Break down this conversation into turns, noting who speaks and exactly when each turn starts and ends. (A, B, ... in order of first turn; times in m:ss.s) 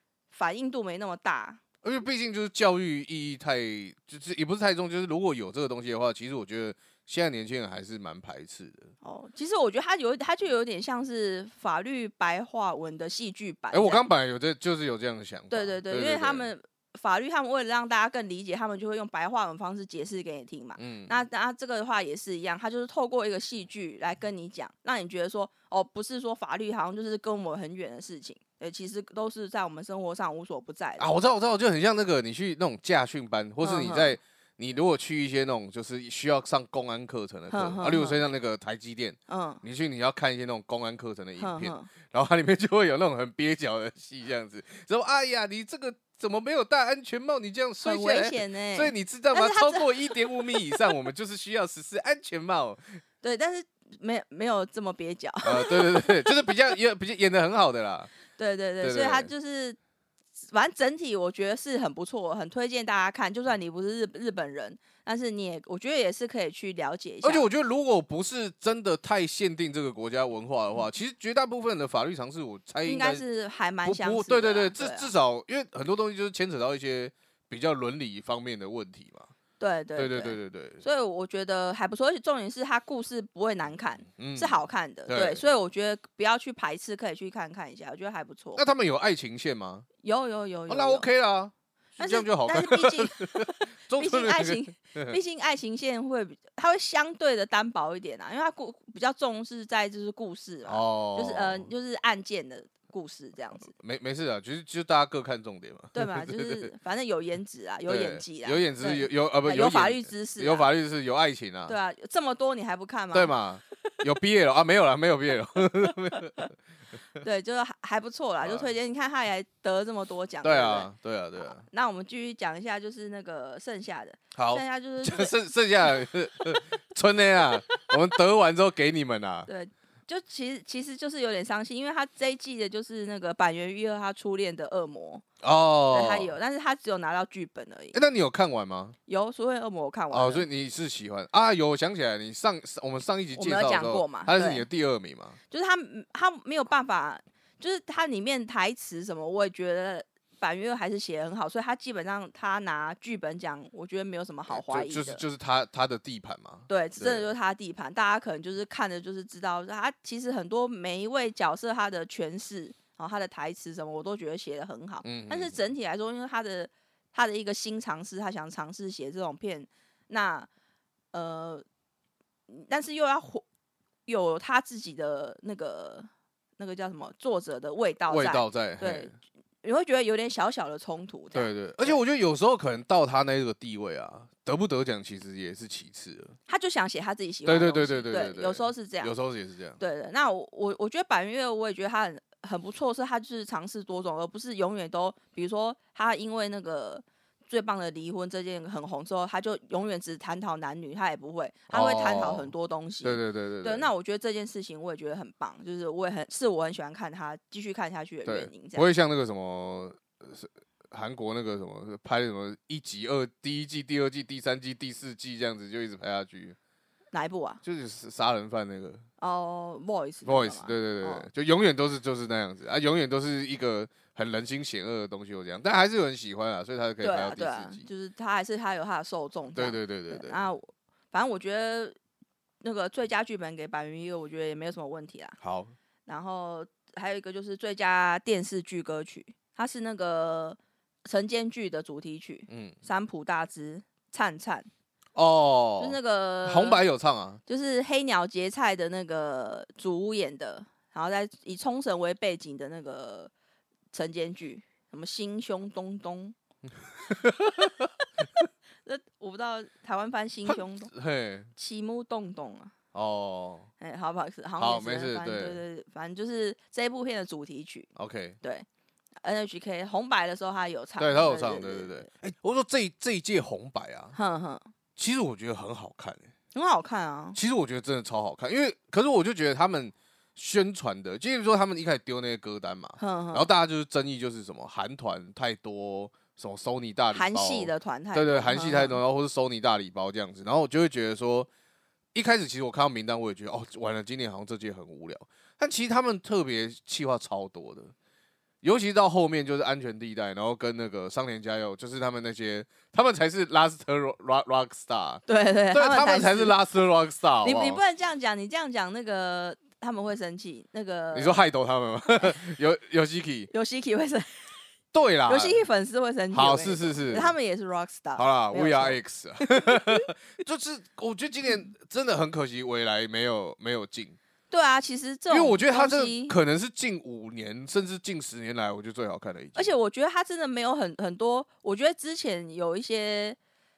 0:00.3-0:01.6 A
0:01.8-0:08.9 B
0:09.0-0:14.0 A
0:13.7-0:16.5 B
0:15.5-0:31.1 A
0:20.8-0:21.2 B
0:31.0-0:53.0 B
0:33.6-0:34.2 A
0:37.5-0:38.2 A
0:39.3-0:39.6 A
0:41.4-0:41.9 A
0:47.8-0:50.9 A
0:53.2-0:56.7 A
0:55.4-0:58.1 B
0:58.4-0:59.8 A
0:58.8-0:59.3 B
1:00.5-1:07.5 A
1:07.2-1:13.2 B
1:12.8-1:15.1 A
1:13.8-1:19.3 B
1:19.6-1:28.6 A
1:20.0-1:20.8 B
1:24.2-1:25.4 B
1:28.6-1:29.9 B
1:30.0-1:31.1 A
1:30.7-1:35.2 B
1:32.0-1:43.7 A
1:40.7-1:41.7 B
1:43.7-1:46.7 B
1:45.9-1:50.7 A
1:47.9-1:51.8 B
1:51.7-1:53.4 A
1:53.1-1:56.4 B
1:56.1-1:56.5 A
1:57.2-2:05.4 A
1:58.4-1:58.7 B
2:00.4-2:01.7 B
2:04.4-2:09.5 B
2:09.5-2:15.2 A
2:15.4-2:16.3 B
2:15.9-2:18.0 A
2:17.9-2:19.0 B
2:19.1-2:20.5 A
2:20.1-2:25.4 B
2:23.3-2:24.7 A
2:25.5-2:35.2 A
2:34.5-2:37.3 B
2:36.7-2:50.5 A
2:45.0-2:45.6 B
2:51.1-2:51.6 A
2:52.5-2:53.4 A
2:54.1-3:02.0 A
2:58.1-2:59.1 B
3:01.3-3:06.4 B
3:06.5-3:09.1 A
3:07.5-3:09.8 B
3:09.8-3:28.9 A
3:21.7-3:22.5 B
3:23.0-3:23.9 B
3:28.2-3:36.6 B
3:37.1-3:37.6 A
3:37.6-3:39.0 B
3:39.2-3:41.3 A
3:40.2-3:47.8 B
3:47.0-3:52.0 A
3:49.6-3:50.5 B
3:52.6-3:55.4 A
3:55.4-3:55.7 B
3:56.1-4:04.7 A
4:02.5-4:02.8 B
4:05.2-4:07.4 B
4:05.8-4:06.8 A
4:07.5-4:13.3 A
4:13.9-4:16.4 A
4:17.0-4:18.5 B
4:18.8-4:20.9 A
4:20.5-4:21.5 B
4:21.6-4:22.7 A
4:22.9-4:23.7 B
4:23.8-4:27.9 A
4:24.6-4:25.6 B
4:28.0-4:28.4 B
4:29.2-4:32.1 A
4:31.0-4:34.2 B
4:34.2-4:34.7 A
4:35.0-4:36.3 B
4:36.5-4:37.4 A
4:37.4-4:51.5 B
4:43.0-4:43.5 A
4:47.1-4:49.0 A
4:52.1-4:57.9 B
4:58.6-5:07.8 B
5:05.3-5:06.6 A
5:07.4-5:11.4 A
5:11.1-5:13.5 B
5:13.5-5:14.6 A
5:14.9-5:15.6 B
5:15.3-5:20.1 A
5:16.3-5:17.4 B
5:18.2-5:24.2 B
5:24.5-5:26.4 A
5:25.3-5:29.7 B
5:29.6-5:33.4 A